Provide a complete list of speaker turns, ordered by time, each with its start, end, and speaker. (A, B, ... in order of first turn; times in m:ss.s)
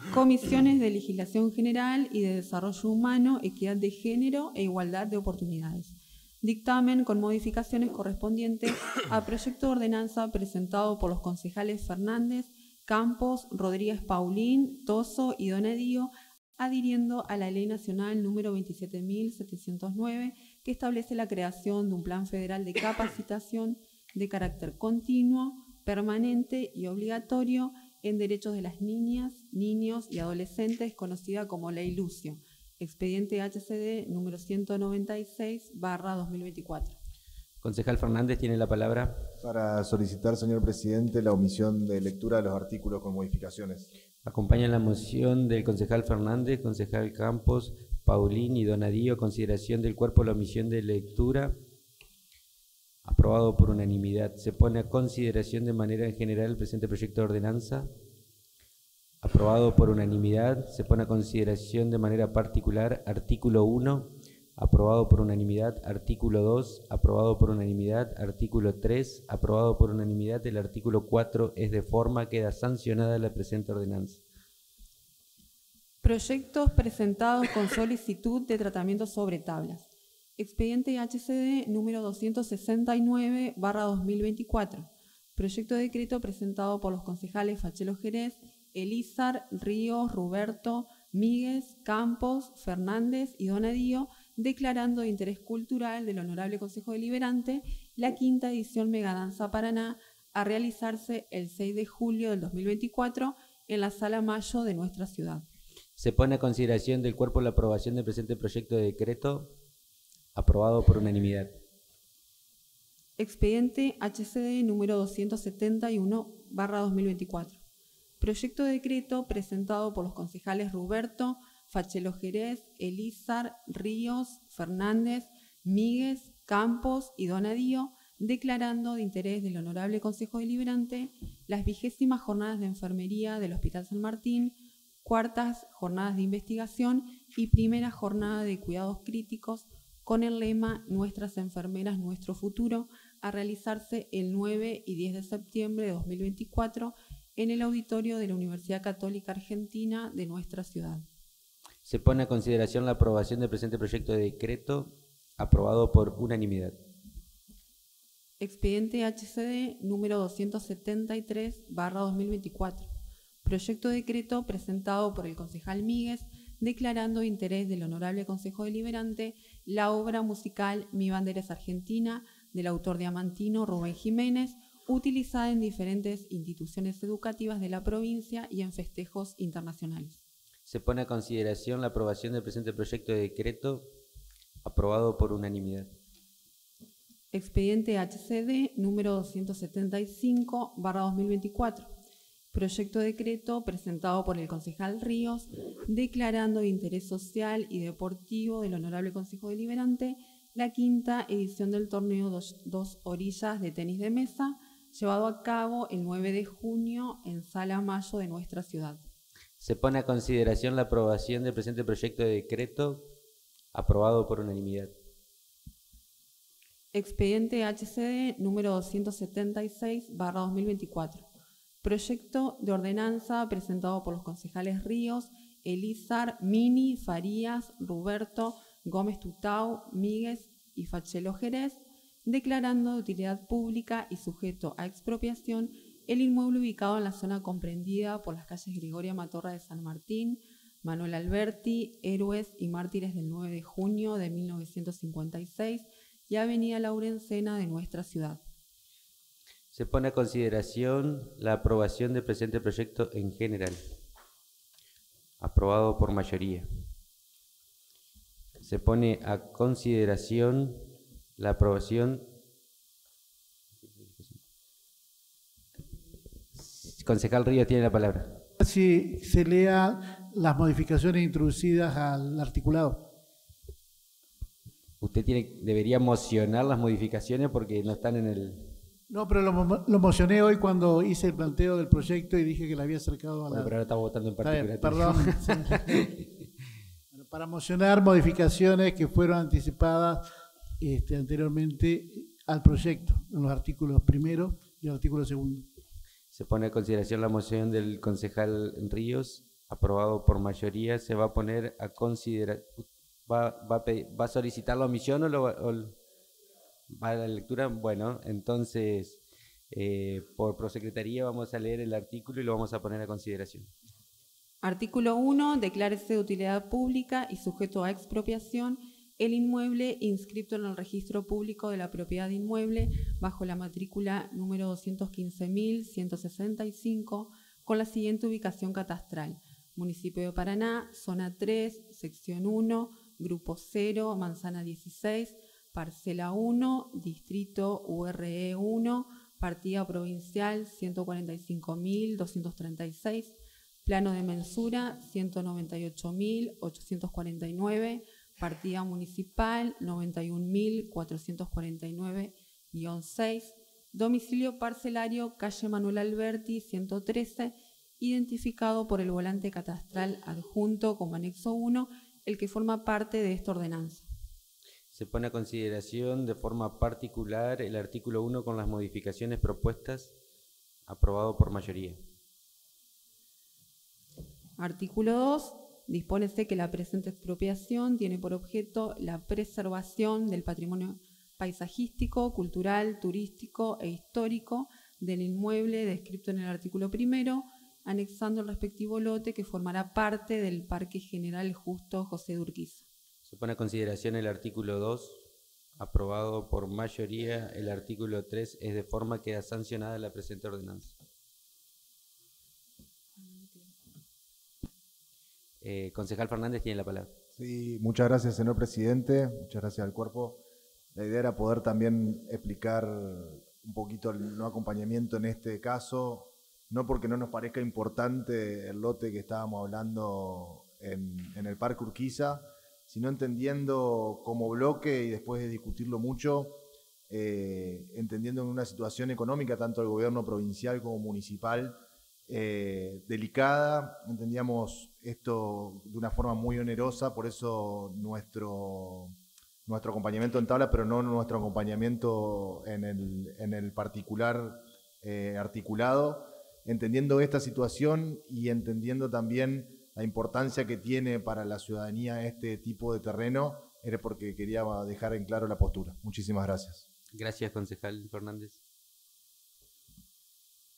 0:00.1-0:37.0 A
0:37.6-0:39.3 B
0:39.4-0:43.9 C
0:44.2-0:51.6 B
0:53.0-0:57.9 B
0:59.2-1:14.2 B
1:16.0-1:45.5 A
1:46.0-1:49.6 B
1:50.4-1:51.6 B
1:53.2-1:57.6 A
1:58.2-2:31.1 A
2:31.8-2:36.8 B
2:38.4-2:42.9 A
2:43.4-3:00.2 A
3:00.7-3:03.9 B
3:04.6-3:05.9 B
3:07.3-3:11.9 A
3:12.5-3:29.0 A
3:29.6-3:33.1 B
3:33.7-3:34.9 B
3:36.9-3:41.3 A
3:41.8-4:08.4 A
4:09.7-4:13.8 B
4:15.4-4:16.7 B
4:18.6-4:22.3 B
4:23.8-4:24.4 B
4:26.5-4:28.4 B
4:28.6-4:33.1 D
4:35.0-4:38.8 B
4:39.1-4:43.7 D
4:43.5-4:46.3 B
4:44.4-4:46.0 D
4:47.1-4:50.2 D
4:50.8-4:55.7 D
4:56.3-5:06.0 B
5:06.9-5:09.2 B
5:09.7-5:13.7 B
5:14.6-6:04.1 A
6:04.9-6:10.1 B
6:10.9-6:12.0 B
6:14.6-6:32.8 A
6:33.2-6:35.2 B
6:35.8-6:41.0 B
6:43.2-6:43.8 A
6:45.6-6:47.1 B
6:47.4-6:50.4 C
6:51.0-7:06.6 C
7:07.1-7:11.8 C
7:12.3-7:19.2 C
7:19.7-7:36.8 C
7:37.1-7:38.6 B